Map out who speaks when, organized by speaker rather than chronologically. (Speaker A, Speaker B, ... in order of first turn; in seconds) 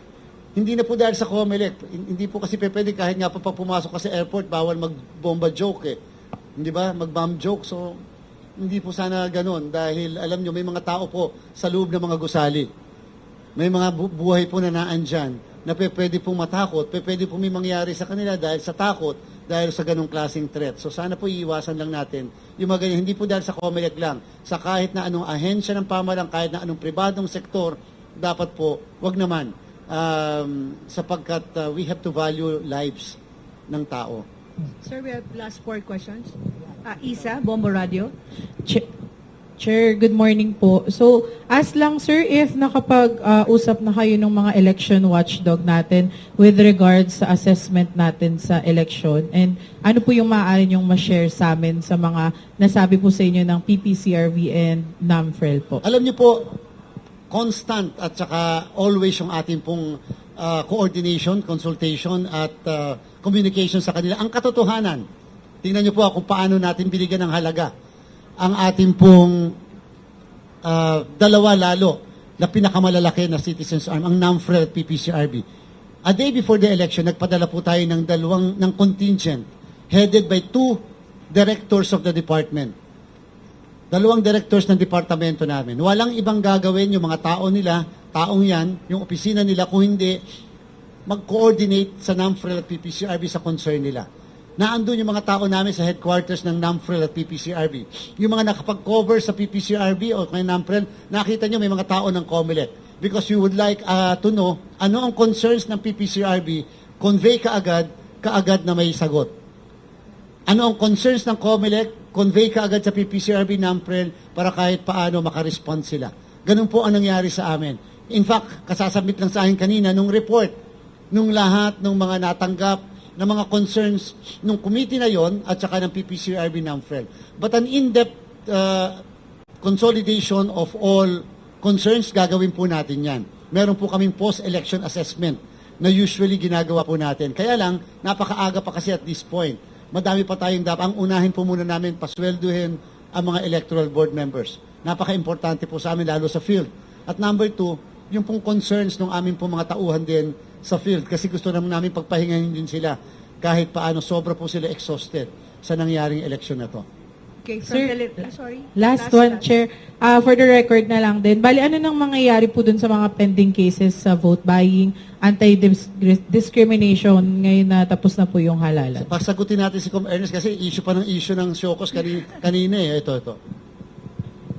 Speaker A: 0.6-6.0, 6.6-8.0, 8.6-12.7, 13.6-33.2, 33.7-34.2, 55.8-56.6, 57.3-65.0, 65.6-67.7, 68.4-69.5, 70.6-75.4, 76.1-80.8, 81.3-82.7, 83.9-90.2, 91.1-94.0, 94.6-109.3, 110.5-120.5, 121.1-129.0, 129.6-156.8, 169.0-173.4
Speaker B: 34.8-36.3, 36.8-38.1, 157.4-159.5
Speaker C: 39.6-55.8, 157.7-169.1